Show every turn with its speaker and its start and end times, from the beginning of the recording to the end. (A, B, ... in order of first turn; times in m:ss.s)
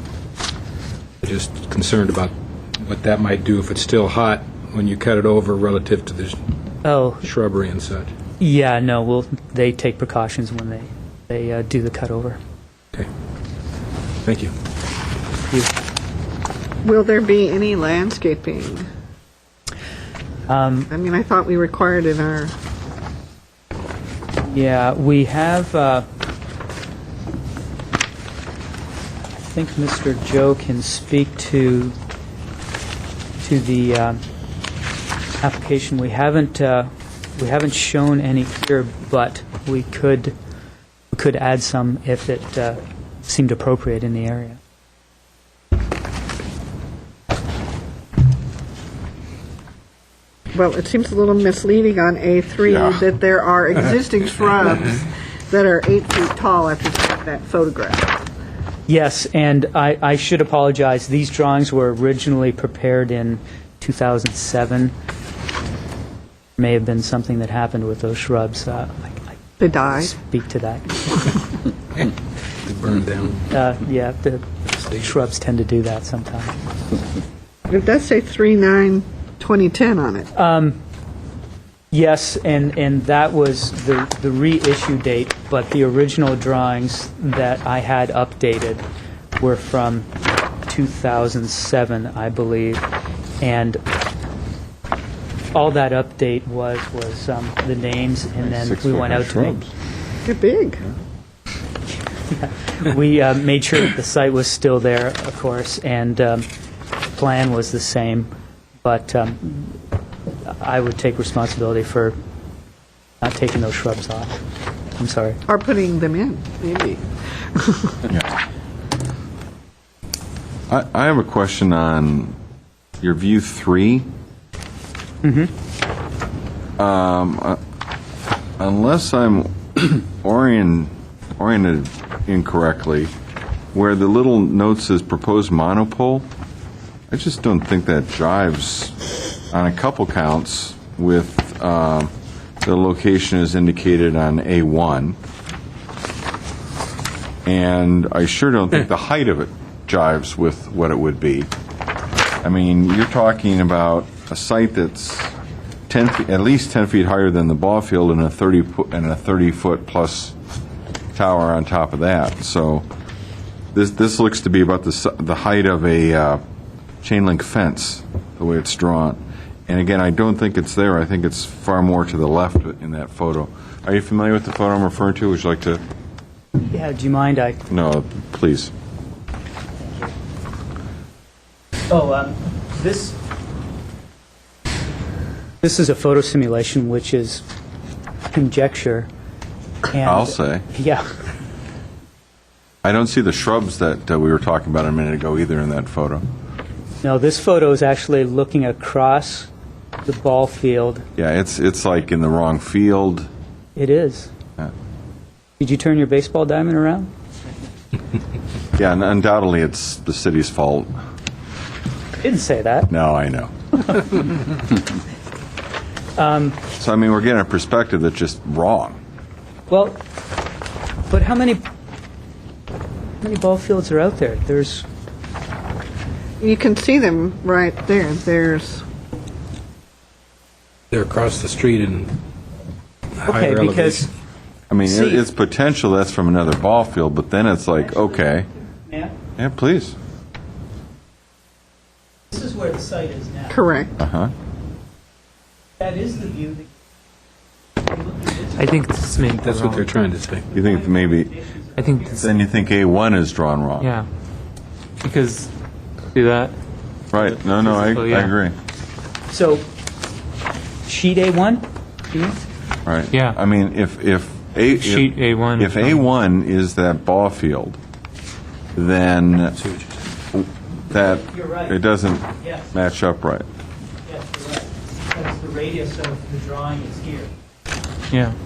0:01.2-0:06.4 A
0:06.8-0:07.3 B
0:07.2-0:08.1 A
0:08.4-0:12.4 B
0:14.2-0:14.5 A
0:16.8-0:18.9 C
0:20.5-0:20.9 B
0:20.9-0:22.5 C
0:24.4-0:26.1 B
0:29.3-0:32.0 B
0:33.4-0:34.2 B
0:35.4-0:40.4 B
0:41.1-0:44.6 B
0:50.5-0:58.2 C
0:52.6-0:53.0 D
0:58.9-1:04.9 B
1:06.6-1:11.4 B
1:09.6-1:10.1 C
1:12.6-1:13.5 A
1:13.5-1:16.6 B
1:17.7-1:20.3 C
1:20.4-1:20.8 B
1:21.9-1:28.8 B
1:29.4-1:30.1 B
1:30.7-1:32.8 B
1:33.4-1:33.8 B
1:35.5-1:39.6 B
1:38.9-1:39.5 A
1:40.2-1:40.8 C
1:42.3-1:46.5 B
1:47.1-1:48.3 B
1:48.8-1:49.8 B
1:50.4-1:52.2 B
1:53.2-1:54.4 B
1:55.0-1:55.4 B
1:55.5-1:57.0 C
1:57.5-1:58.0 C
2:00.7-2:02.4 D
2:03.0-2:04.1 D
2:05.2-2:05.5 B
2:06.8-2:07.6 D
2:08.6-2:13.1 D
2:13.7-2:16.3 D
2:17.1-2:19.0 D
2:19.5-2:22.1 D
2:22.6-2:25.2 D
2:27.5-2:31.5 D
2:32.4-2:35.4 D
2:35.9-2:40.4 D
2:41.2-2:42.9 D
2:43.7-2:46.4 D
2:47.0-2:55.8 D
2:56.6-2:57.6 B
2:57.7-2:58.7 D
2:59.8-3:00.1 B
3:01.9-3:03.2 B
3:05.6-3:07.4 B
3:08.3-3:09.1 B
3:09.9-3:11.2 B
3:10.0-3:10.7 D
3:12.8-3:16.2 D
3:17.0-3:19.5 B
3:20.0-3:21.1 B
3:21.2-3:23.3 D
3:23.8-3:24.3 B
3:25.6-3:27.1 B
3:28.8-3:30.9 D
3:32.2-3:32.9 B
3:32.9-3:33.8 D
3:36.2-3:36.6 B
3:36.8-3:39.0 D
3:39.7-3:40.0 B
3:41.1-3:41.7 B
3:43.2-3:44.9 B
3:46.4-3:48.8 C
3:50.9-3:52.1 A
3:53.2-3:54.1 A
3:53.2-3:54.1 B
3:54.7-3:58.5 D
3:54.8-3:55.2 B
3:57.8-3:58.3 B
3:58.8-3:59.2 B
3:59.4-4:00.0 D
4:02.3-4:03.8 B
4:03.5-4:03.9 C
4:04.0-4:04.3 D
4:05.8-4:06.7 B
4:07.9-4:08.7 B
4:08.5-4:10.0 E
4:09.4-4:10.5 A
4:10.5-4:12.3 B
4:10.5-4:11.3 D
4:11.8-4:12.2 E
4:12.1-4:13.9 D
4:13.8-4:14.1 E
4:15.0-4:15.5 E
4:16.1-4:16.5 E
4:17.1-4:18.6 D
4:17.1-4:18.3 E
4:19.3-4:19.7 B
4:20.9-4:22.4 B
4:22.9-4:27.8 D
4:23.1-4:23.4 E
4:24.7-4:26.0 E
4:28.8-4:29.6 D
4:29.6-4:29.9 A
4:30.3-4:33.5 D
4:31.0-4:31.7 B
4:32.4-4:32.7 B
4:34.1-4:37.3 B
4:38.1-4:38.4 E